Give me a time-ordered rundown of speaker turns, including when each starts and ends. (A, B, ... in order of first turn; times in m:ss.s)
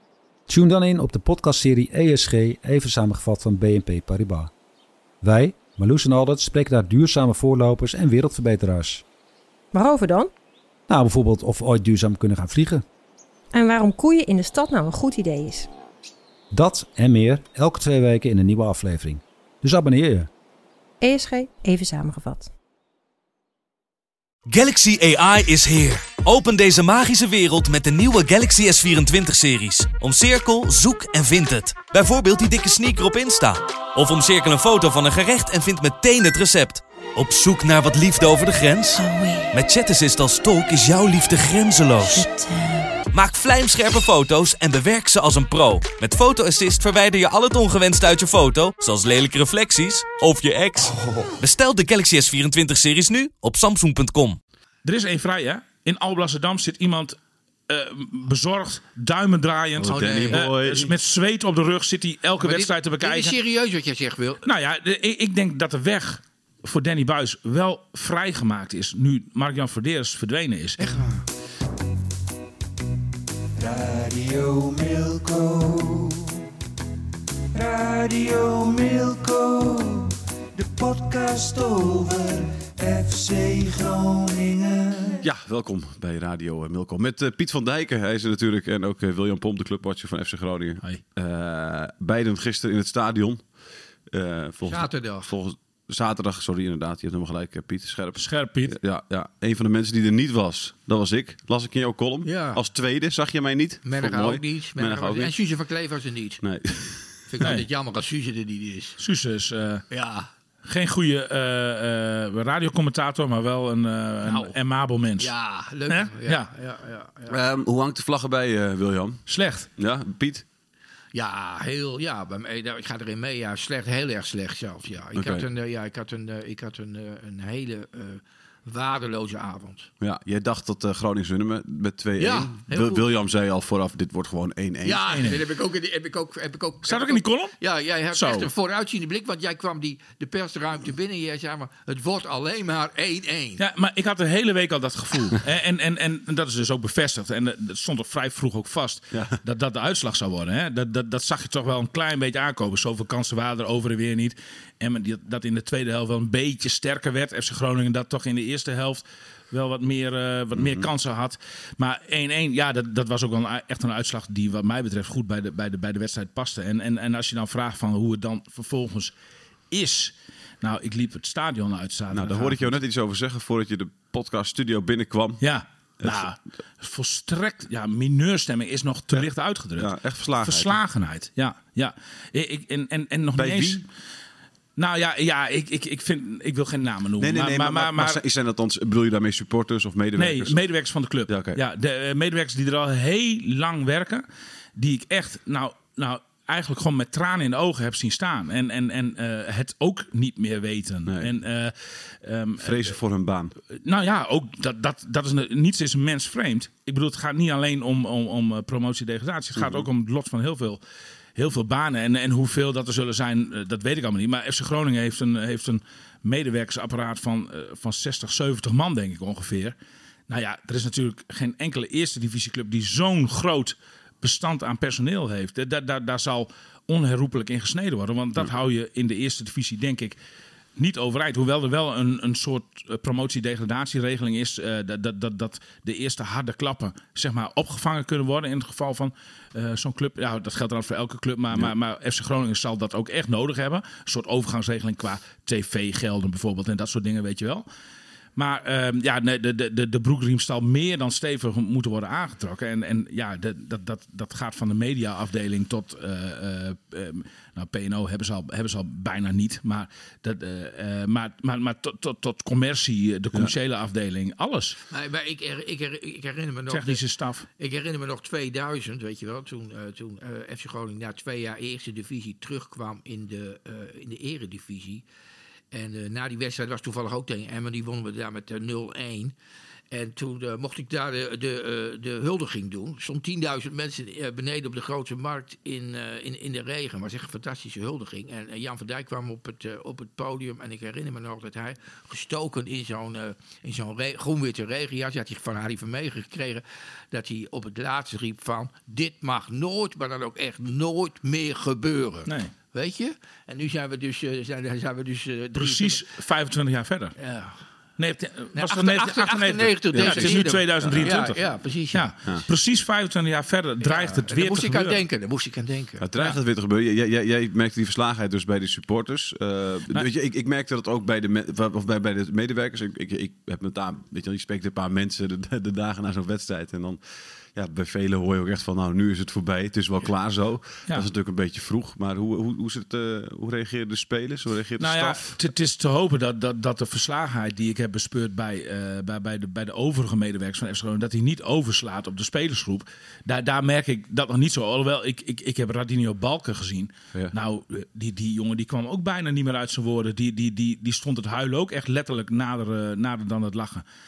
0:00.5-0:04.5 A
0:05.2-0:09.0 A
0:09.7-0:10.3 B
0:10.9-0:12.8 A
0:13.5-0:15.7 B
0:16.5-0:20.3 A
0:21.0-0:22.5 B
0:24.5-0:42.3 C
0:39.0-0:39.5 B
0:42.0-0:42.9 B
0:43.1-0:54.4 C
0:54.8-0:57.2 D
0:57.7-1:03.4 D
0:59.8-1:00.9 E
0:59.9-1:00.4 F
1:02.4-1:04.4 F
1:04.4-1:11.0 D
1:10.8-1:11.2 F
1:13.6-1:16.4 G
1:17.5-1:25.2 G
1:25.2-1:33.4 E
1:34.1-1:45.3 E
1:34.7-1:35.3 F
1:38.2-1:38.8 D
1:42.2-1:42.6 F
1:43.8-1:46.4 F
1:46.4-1:47.5 E
1:47.3-1:49.0 F
1:49.0-1:49.8 D
1:49.9-1:50.3 F
1:50.6-1:55.3 D
1:54.2-1:54.6 F
1:55.2-1:57.4 F
1:55.9-1:56.5 D
1:57.3-1:59.2 E
1:59.3-1:59.7 D
1:59.8-2:00.4 E
2:01.1-2:09.9 F
2:05.1-2:05.4 E
2:10.0-2:15.1 E
2:12.2-2:13.0 F
2:14.8-2:23.6 F
2:15.1-2:15.4 D
2:16.8-2:17.6 D
2:18.1-2:18.5 D
2:23.6-2:49.1 D
2:29.1-2:29.4 E
2:40.5-2:40.9 E
2:49.7-2:52.7 D
2:52.1-2:55.4 E
2:55.4-3:03.8 D
2:56.0-2:56.3 E
2:59.8-3:00.8 E
3:03.4-3:03.8 E
3:04.8-3:08.2 D
3:07.2-3:10.6 E
3:10.2-3:14.2 D
3:11.3-3:11.6 E
3:14.8-3:22.9 D
3:21.0-3:21.3 E
3:22.6-3:23.5 E
3:23.8-3:30.8 D
3:29.6-3:29.9 E
3:31.4-3:39.7 D
3:40.3-3:50.2 D
3:50.8-4:07.6 D
4:08.4-4:24.8 D
4:24.9-4:27.0 F
4:26.7-4:27.4 D
4:27.6-4:35.0 F
4:35.7-4:39.3 F
4:39.9-5:06.0 F
5:02.3-5:02.5 D
5:05.6-5:07.2 D
5:07.2-5:07.5 F
5:08.0-5:11.4 D
5:08.5-5:12.0 F
5:09.9-5:11.2 E
5:11.9-5:15.0 D
5:13.8-5:16.1 F
5:16.0-5:27.0 E
5:27.5-5:35.4 E
5:34.8-5:53.8 D